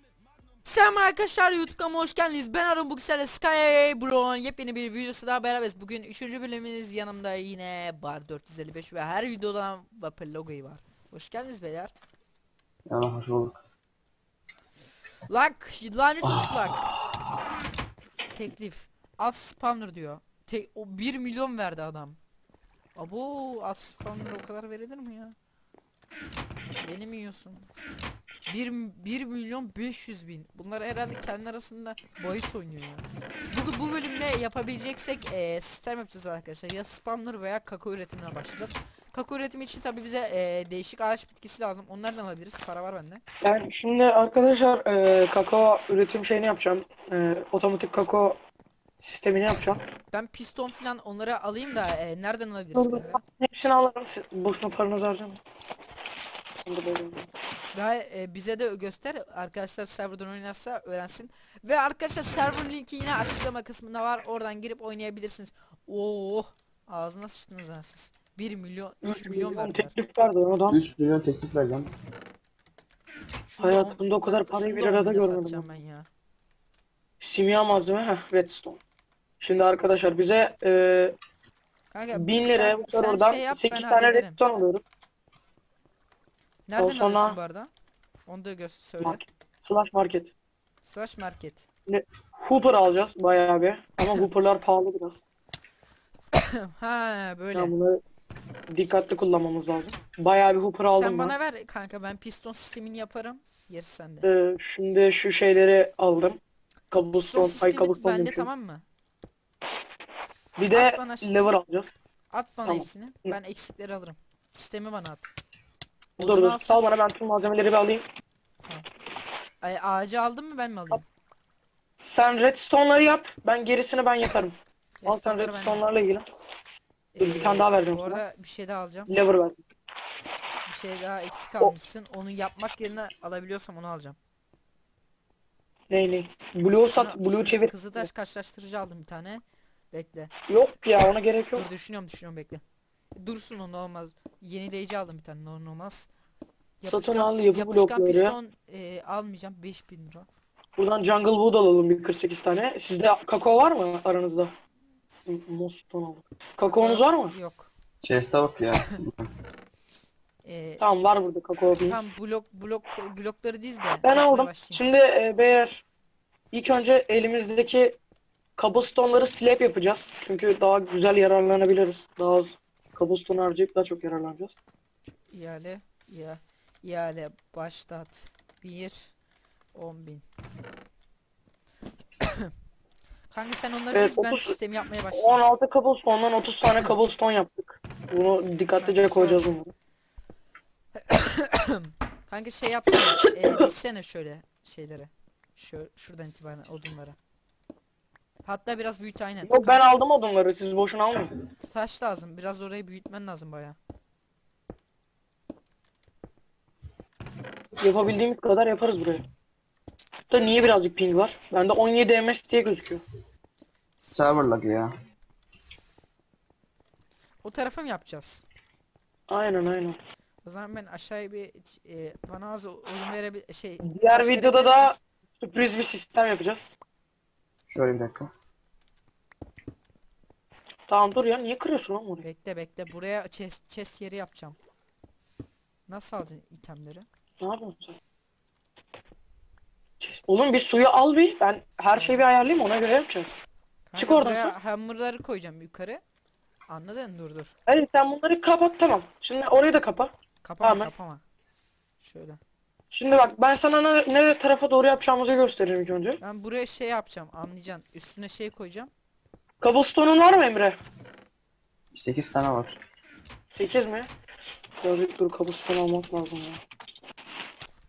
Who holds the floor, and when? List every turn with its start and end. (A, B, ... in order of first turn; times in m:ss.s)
0:00.6-0:11.9 A
0:12.9-0:13.6 B
0:15.3-0:16.9 A
0:16.2-0:16.6 B
0:18.3-0:22.2 A
0:23.0-0:25.4 A
0:26.8-0:27.7 A
0:28.5-0:43.2 A
0:43.4-0:48.4 C
0:49.0-0:49.8 C
0:50.1-0:53.2 A
0:52.8-0:55.4 C
0:56.7-0:57.3 C
0:57.7-1:09.9 A
1:09.0-1:10.8 C
1:10.7-1:11.9 B
1:13.5-1:16.1 A
1:13.6-1:15.7 C
1:17.2-1:18.8 C
1:19.4-1:21.2 C
1:21.9-1:24.4 A
1:22.1-1:24.8 C
1:26.7-1:27.7 A
1:26.8-1:27.4 C
1:28.3-1:29.2 A
1:29.0-1:30.3 C
1:30.8-1:31.7 A
1:31.9-1:35.2 C
1:36.3-1:37.7 A
1:37.5-1:38.0 C
1:38.7-1:41.3 C
1:40.9-1:44.3 A
1:44.2-1:46.4 C
1:46.9-1:48.5 C
1:47.2-1:48.8 A
1:50.6-1:51.9 C
1:50.7-1:51.6 A
1:52.3-1:55.3 A
1:52.7-1:53.3 C
1:56.2-1:58.1 C
1:56.2-1:56.8 A
1:59.6-2:01.0 A
2:02.1-2:04.6 C
2:05.0-2:05.8 A
2:05.1-2:06.2 C
2:07.1-2:09.1 A
2:07.2-2:08.2 C
2:09.1-2:09.6 C
2:10.7-2:14.2 A
2:15.9-2:18.1 C
2:16.9-2:20.3 A
2:20.5-2:21.6 C
2:21.6-2:22.6 A
2:23.2-2:26.1 A
2:26.8-2:30.3 A
2:26.9-2:28.4 C
2:30.8-2:34.5 C
2:35.3-2:37.3 C
2:36.6-2:37.7 A
2:38.0-2:39.3 B
2:40.4-2:40.8 A
2:40.8-2:42.0 C
2:41.9-2:44.8 A
2:44.0-2:45.8 C
2:46.5-2:48.0 C
2:48.6-2:54.6 C
2:55.3-2:59.2 A
2:59.7-3:00.2 A
3:03.3-3:05.4 A
3:03.9-3:04.6 C
3:05.1-3:09.7 C
3:08.8-3:09.5 A
3:11.0-3:17.2 A
3:18.4-3:19.9 A
3:19.4-3:21.3 C
3:21.6-3:23.8 A
3:27.8-3:29.2 C
3:30.3-3:33.0 C
3:34.0-3:34.4 A
3:34.1-3:34.9 B
3:37.4-3:38.4 A
3:39.3-3:40.0 C
3:40.4-3:45.0 A
3:43.8-3:46.7 C
3:47.7-3:48.3 B
3:50.9-3:52.2 C
3:52.2-3:54.6 A
3:55.9-3:57.1 A
3:57.4-3:58.0 C
4:00.0-4:03.3 C
4:02.0-4:02.3 A
4:03.9-4:06.0 A
4:04.0-4:04.6 C
4:06.7-4:07.6 A
4:07.7-4:10.9 C
4:10.4-4:11.2 A
4:12.0-4:12.4 A
4:12.9-4:16.2 C
4:16.2-4:18.9 A
4:19.6-4:20.8 C
4:21.9-4:22.8 B
4:23.6-4:24.1 C
4:24.8-4:26.6 C